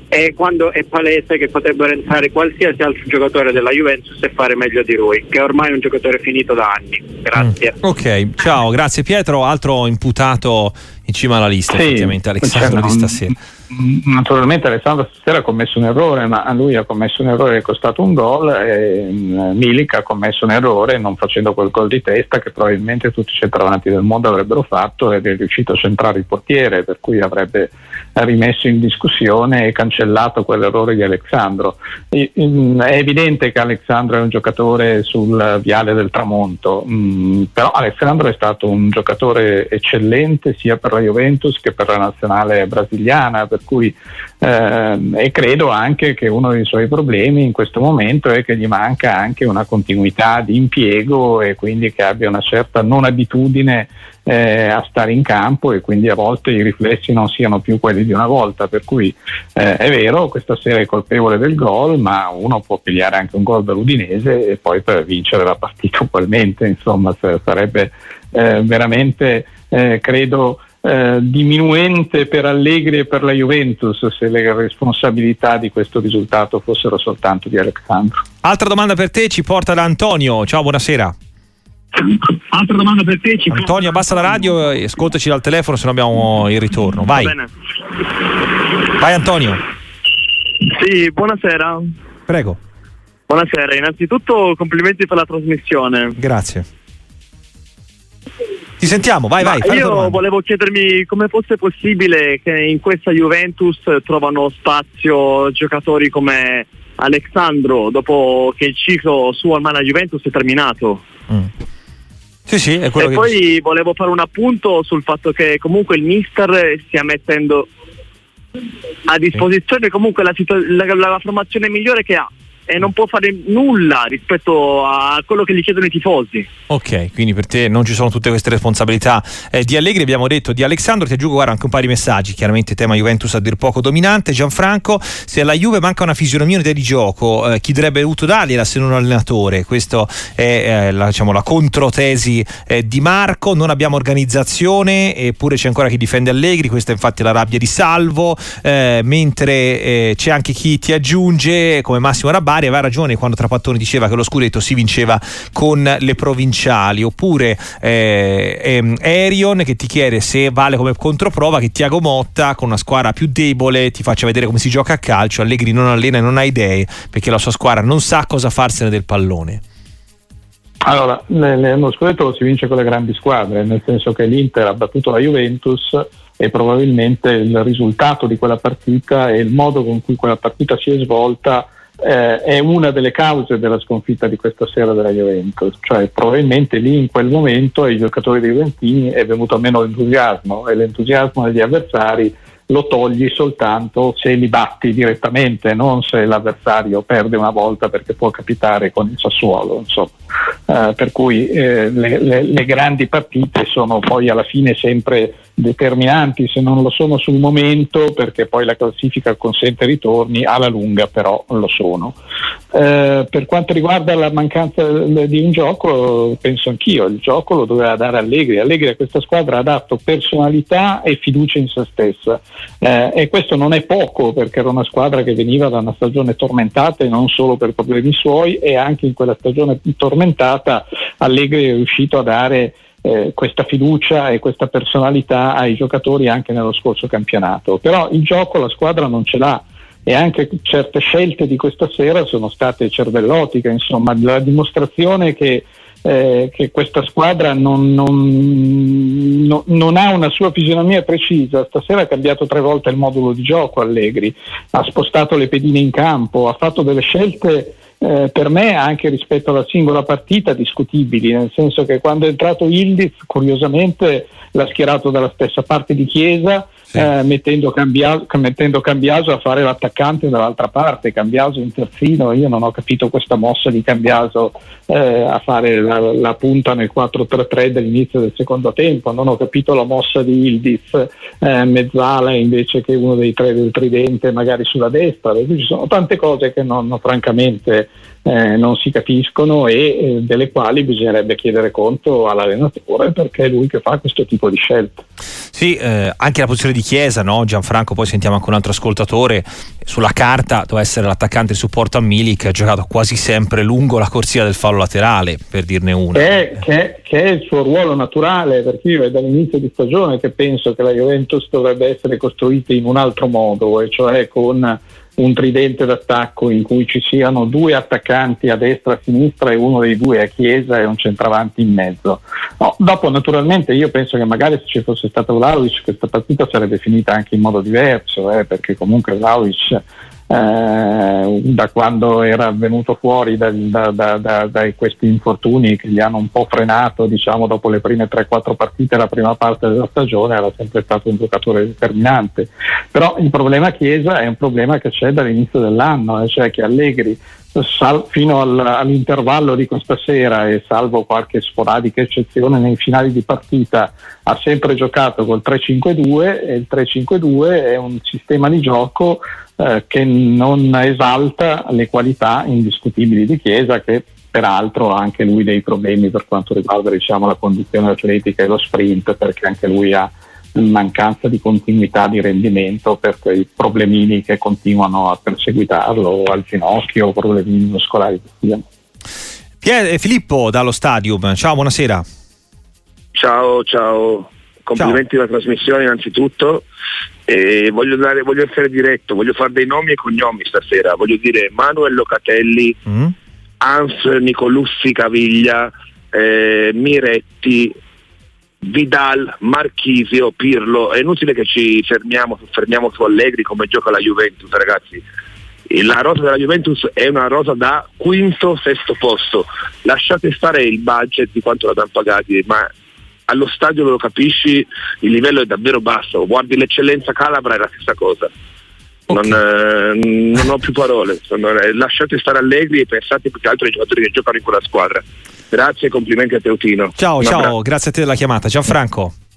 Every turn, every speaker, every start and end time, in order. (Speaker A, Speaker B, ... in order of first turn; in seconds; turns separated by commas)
Speaker A: 0.1-7.8, Speaker B: 7.4-13.3, Speaker C: 11.7-78.2, Speaker B: 78.4-81.1, Speaker D: 82.5-83.7, Speaker B: 83.5-87.3, Speaker D: 87.1-87.5, Speaker B: 89.0-89.6, Speaker D: 90.7-91.9, Speaker B: 92.3-92.6, Speaker D: 93.3-96.1, Speaker B: 96.2-96.7, Speaker B: 98.8-100.2, Speaker D: 99.4-111.0, Speaker B: 112.5-113.3, Speaker D: 113.0-117.7, Speaker D: 119.1-126.5, Speaker B: 126.7-169.6, Speaker C: 170.8-200.1, Speaker C: 200.7-212.2, Speaker C: 212.7-295.0, Speaker B: 295.5-306.4, Speaker C: 306.1-378.6, Speaker B: 379.6-382.0, Speaker E: 383.1-386.6, Speaker E: 387.3-392.8, Speaker B: 392.9-393.1, Speaker E: 393.6-397.7, Speaker E: 398.6-405.0, Speaker E: 405.7-412.7, Speaker E: 413.3-418.3, Speaker E: 419.1-427.5, Speaker B: 427.0-429.1